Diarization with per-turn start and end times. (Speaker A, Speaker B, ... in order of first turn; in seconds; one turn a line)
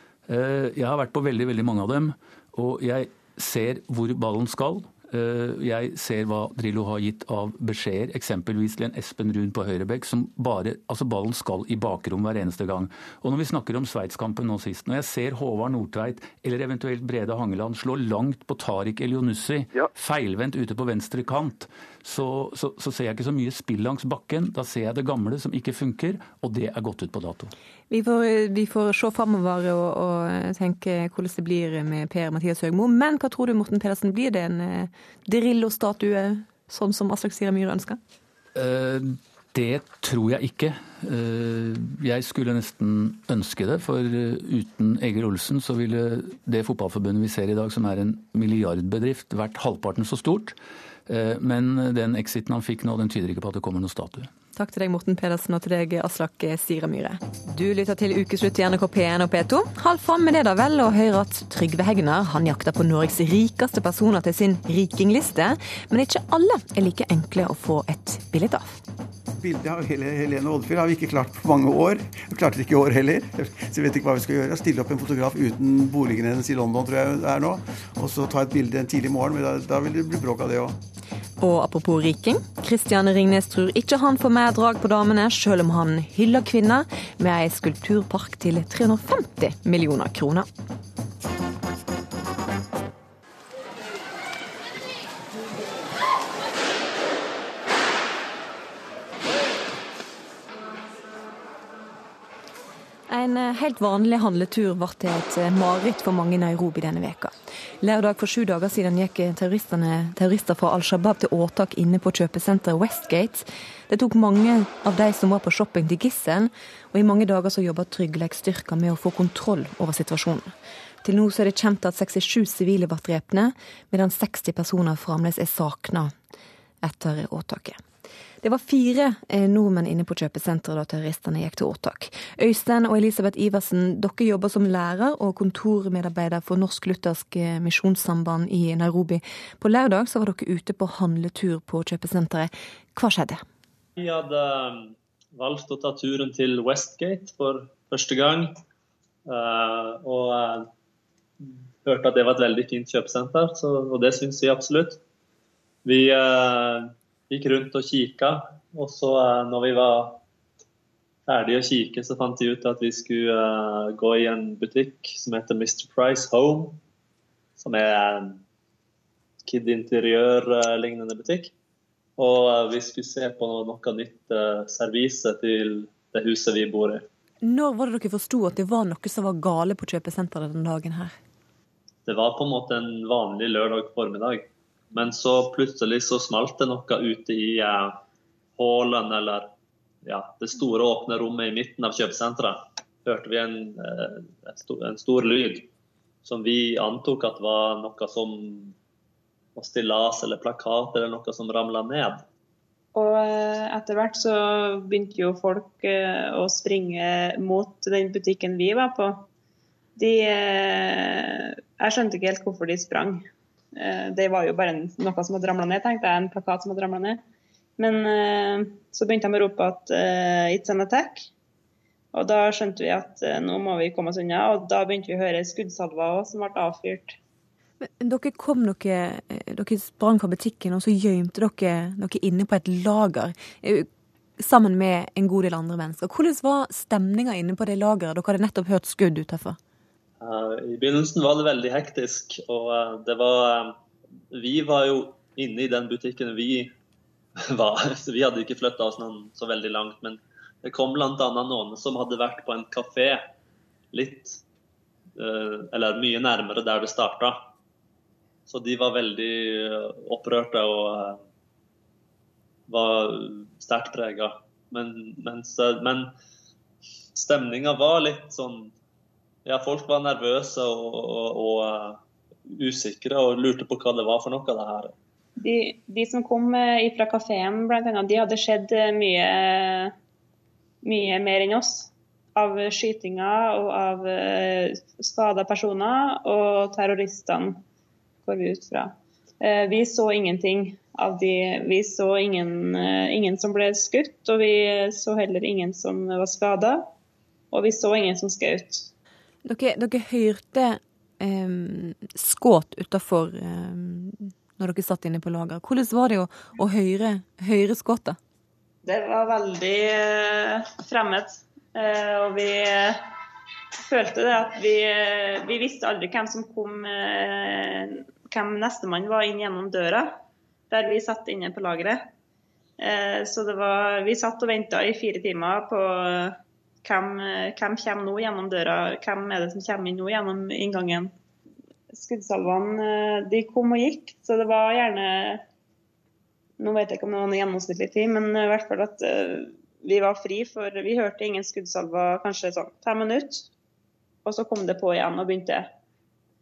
Speaker A: 0.3-27.5
Speaker B: 27.9-38.0
Speaker A: 38.5-54.3
Speaker B: 54.6-68.8
Speaker C: 69.4-80.8
Speaker B: 81.4-90.5
Speaker B: 103.1-120.5
Speaker B: 121.0-126.1
Speaker B: 126.8-127.8
Speaker B: 128.4-143.4
Speaker D: 144.0-148.6
Speaker D: 149.3-150.7
Speaker D: 151.4-155.0
Speaker D: 155.8-160.2
Speaker D: 161.3-166.8
Speaker D: 167.6-168.4
Speaker D: 169.4-171.5
Speaker D: 172.2-177.1
Speaker B: 177.4-181.2
Speaker D: 182.1-188.0
Speaker D: 188.6-189.5
Speaker D: 190.0-195.7
Speaker D: 196.2-198.8
Speaker D: 199.6-202.2
Speaker E: 202.9-209.3
Speaker E: 210.0-217.2
Speaker E: 217.8-221.3
Speaker E: 222.1-227.2
Speaker B: 227.8-233.9
Speaker B: 234.4-239.6
Speaker D: 240.2-243.8
Speaker D: 244.3-246.7
Speaker D: 247.4-253.3
Speaker D: 253.9-254.4
Speaker D: 255.2-257.5
Speaker D: 258.5-261.2
Speaker D: 262.7-266.1
Speaker D: 267.1-268.7
Speaker D: 269.4-274.9
Speaker E: 275.4-279.9
Speaker E: 280.8-287.6
Speaker E: 288.2-296.9
Speaker E: 297.5-298.9
Speaker B: 299.4-308.2
Speaker E: 308.8-313.1
Speaker E: 313.8-320.2
Speaker E: 320.7-322.1
Speaker E: 322.8-331.1
Speaker E: 331.9-335.4
Speaker E: 336.6-343.5
Speaker E: 344.2-345.7